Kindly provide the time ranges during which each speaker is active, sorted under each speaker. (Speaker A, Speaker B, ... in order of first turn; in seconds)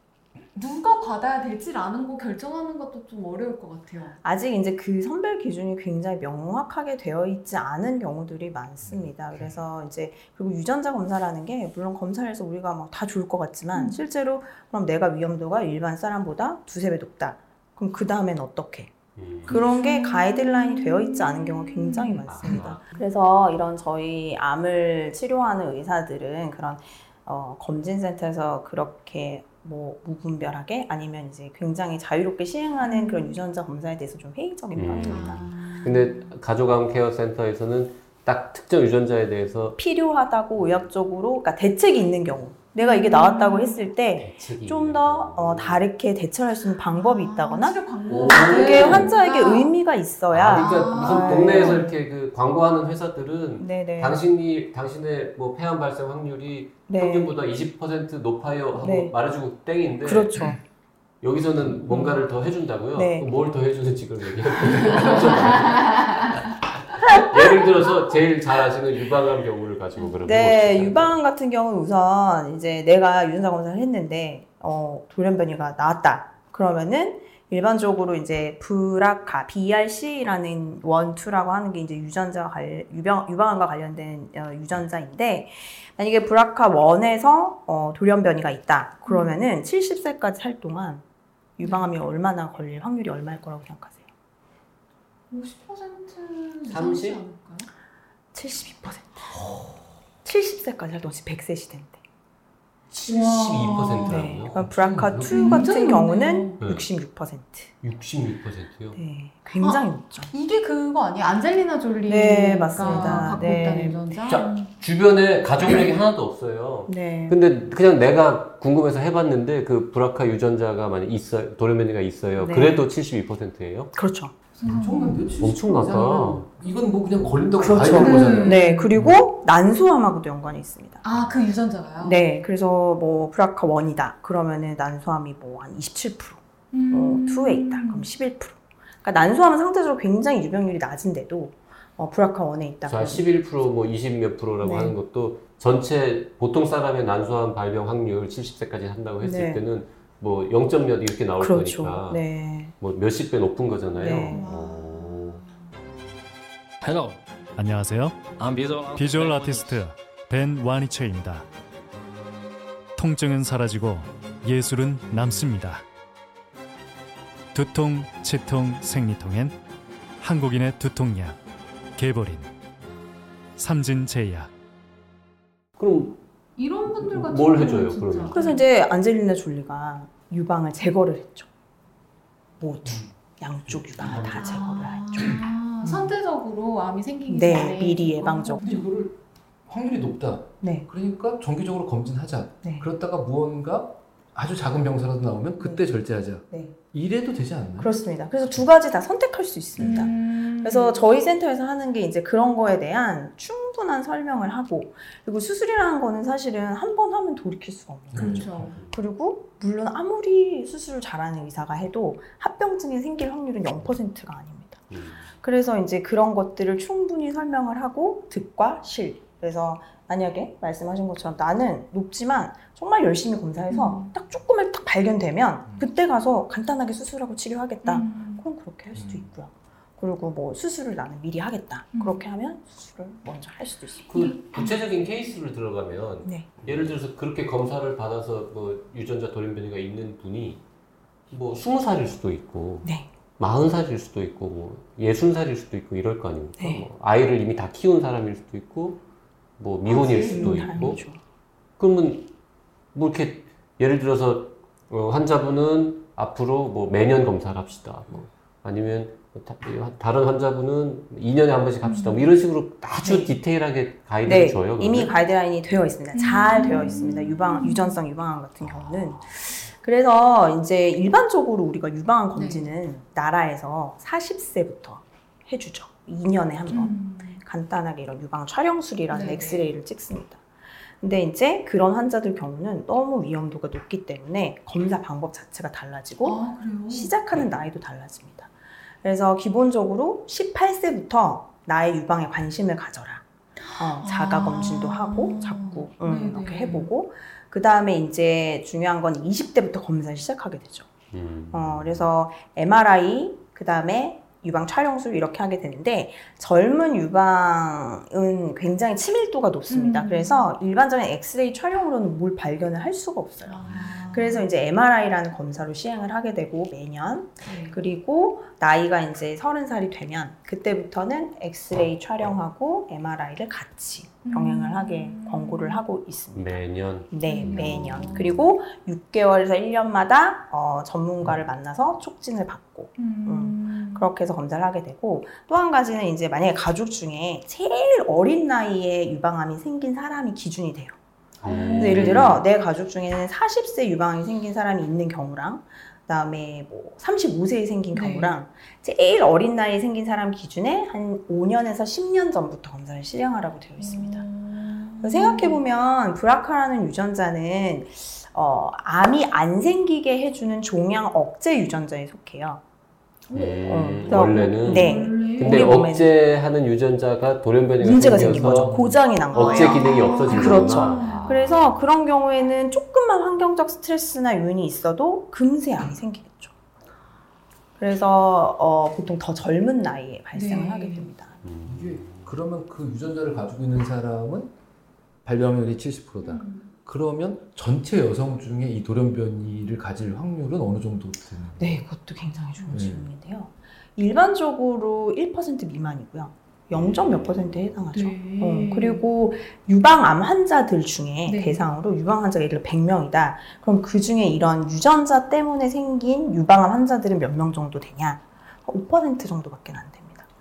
Speaker A: 0.5-4.2, 13.7-14.0, 19.5-22.6, 32.8-33.4, 34.9-36.3, 42.8-43.8, 46.9-49.7, 50.5-51.9, 66.1-66.4, 89.1-89.4, 91.6-91.9, 95.3-97.7, 103.0-104.3, 105.3-106.6, 109.6-114.7, 124.5-125.3, 128.0-128.9, 131.0-132.3, 136.7-138.1, 154.3-155.5, 176.6-178.6, 184.1-188.8, 199.8-201.1, 208.2-208.8, 223.7-224.1, 227.8-228.4, 231.9-232.2, 234.1-234.8, 249.9-251.0, 261.8-262.3, 266.1-268.0, 272.4-272.7, 276.7-277.4, 279.1-279.7, 286.2-287.1, 293.6-296.9, 309.7-310.5, 313.4-314.5, 317.4-317.8, 324.2-325.8, 327.2-328.5, 333.0-334.1, 341.4-342.3, 347.9-348.4, 353.8-355.6, 363.3-365.8, 369.3-371.4, 380.3-381.1, 386.2-386.7, 397.9-399.1, 401.3-401.6
Speaker B: 4.2-18.9, 19.5-35.5, 39.8-51.9, 53.6-54.2, 56.9-57.3, 58.8-59.1, 60.0-60.6, 63.0-63.3, 67.0-67.9, 70.3-91.0, 91.6-94.0, 98.3-99.3, 100.2-102.0, 104.1-107.7, 108.9-110.3, 112.1-114.0, 116.9-117.4, 122.4-122.9, 123.9-124.3, 127.6-131.0, 132.0-143.3, 144.6-145.0, 149.2-149.6, 151.4-152.7, 154.0-154.5, 178.3-181.5, 182.6-186.1, 187.3-188.6, 190.6-190.9, 195.6-195.9, 196.4-196.8, 197.8-214.8, 215.4-234.1, 236.2-236.5, 246.6-246.8, 250.3-251.2, 263.0-263.3, 264.2-280.4, 281.0-288.5, 289.0-293.2, 293.8-300.9, 301.5-341.0, 341.7-354.3, 355.0-362.6, 363.6-366.1, 367.8-376.5, 377.8-381.4, 391.6-410.3
Speaker C: 8.9-9.5, 124.6-129.2, 183.7-185.4, 188.6-197.9, 199.8-200.1, 208.1-208.8, 228.9-229.3, 368.0-369.0, 381.6-384.5, 385.2-391.8, 392.7-393.1
Speaker D: 19.2-19.6, 22.2-22.9, 34.8-39.8, 40.6-40.8, 44.2-45.8, 48.1-49.1, 50.3-60.4, 61.2-71.2, 96.7-97.2, 102.9-105.7, 106.6-106.9, 107.8-109.0, 112.8-113.6, 114.2-123.9, 125.4-126.5, 142.9-152.2, 152.8-155.4, 175.8-176.2, 176.8-178.4, 208.7-209.0, 214.9-215.2, 234.1-240.6, 241.3-249.0, 249.6-251.0, 251.8-252.3, 252.9-265.1, 301.1-302.1, 326.3-328.4, 341.4-342.4, 363.3-371.9, 381.4-382.4, 396.7-397.8
Speaker E: 156.8-157.2, 158.3-159.8
Speaker F: 157.6-158.3, 158.9-161.5, 163.0-165.8, 167.5-169.6, 170.2-171.4, 172.0-172.5, 173.6-174.5